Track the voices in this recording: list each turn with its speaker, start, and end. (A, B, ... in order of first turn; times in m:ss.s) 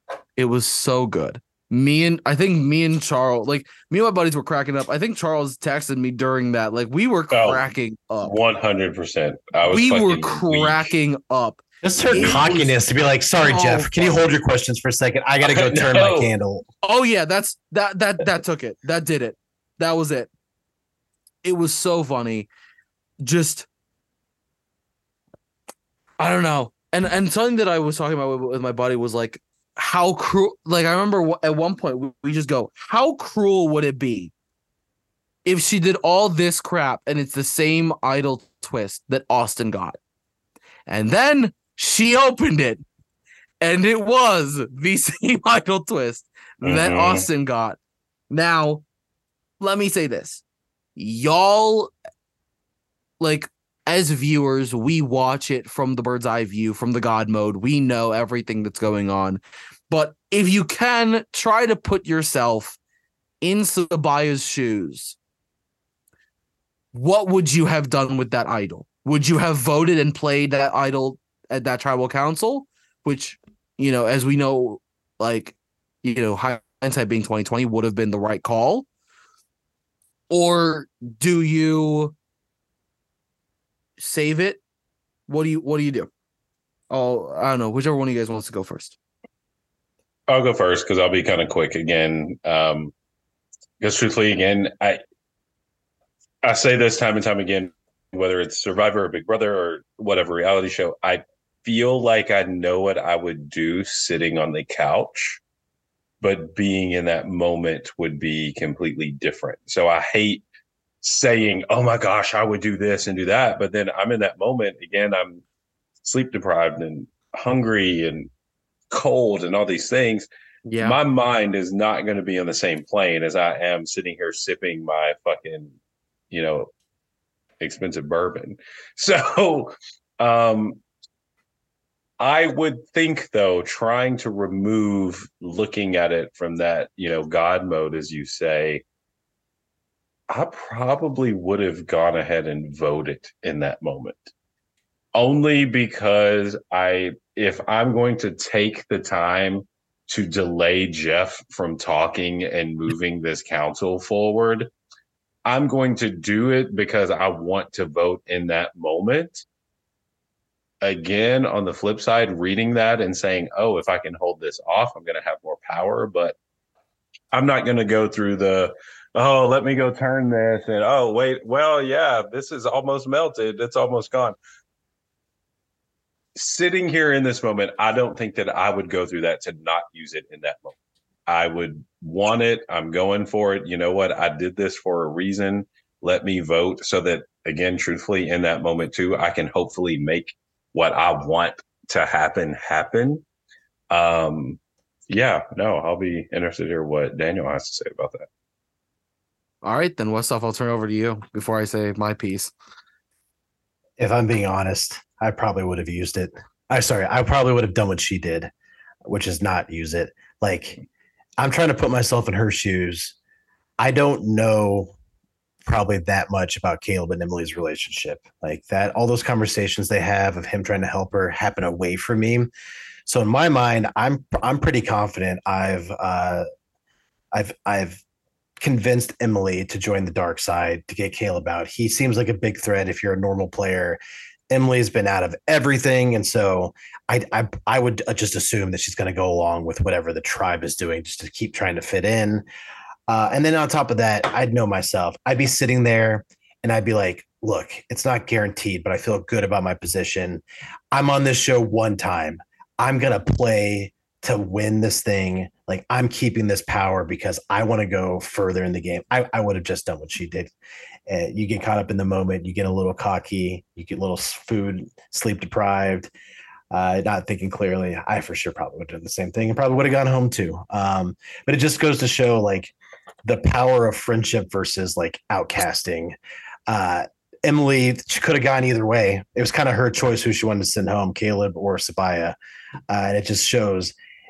0:00.4-0:08.4 A
0:07.3-0:07.6 B
0:08.2-0:10.9 B
0:09.7-0:12.8 A
0:11.8-0:16.7 C
0:12.2-0:12.5 B
0:13.4-0:14.2 A
0:15.4-0:16.3 B
0:16.8-0:20.3 A
0:21.4-0:22.5 A
0:23.2-0:23.7 A
0:26.2-0:34.3 A
0:35.4-0:40.0 A
0:40.9-0:42.8 A
0:43.6-0:47.8 A
0:46.6-0:47.3 B
0:48.3-0:48.8 A
0:49.6-0:50.4 A
0:51.0-0:51.9 A
0:53.2-1:02.8 A
1:03.4-1:05.2 A
1:06.9-1:18.9 A
1:20.3-1:22.1 A
1:24.0-1:24.6 A
1:25.3-1:26.1 A
1:26.9-1:29.0 A
1:30.3-1:32.9 B
1:33.8-1:35.0 B
1:36.4-1:45.4 B
1:46.2-1:50.4 B
1:51.0-1:55.4 B
1:56.0-1:58.3 B
1:58.9-2:00.3 B
2:00.7-2:01.0 A
2:00.8-2:05.7 B
2:06.3-2:06.7 B
2:07.6-2:10.8 B
2:12.2-2:18.8 B
2:20.3-2:24.3 B
2:25.1-2:34.7 B
2:35.4-2:39.4 B
2:40.8-2:46.4 B
2:47.3-2:54.4 B
2:56.4-3:00.7 B
3:01.3-3:13.2 B
3:13.9-3:18.3 B
3:19.6-3:22.5 A
3:24.0-3:28.5 C
3:29.0-3:30.8 C
3:31.4-3:33.1 C
3:33.8-3:34.9 C
3:35.6-3:42.5 C
3:43.0-3:46.4 C
3:47.3-3:48.0 C
3:48.6-4:02.4 C
4:03.1-4:20.5 C
4:21.1-4:26.1 C
4:26.7-4:32.7 C
4:33.3-4:36.2 C
4:36.7-4:42.4 C
4:42.9-4:43.9 C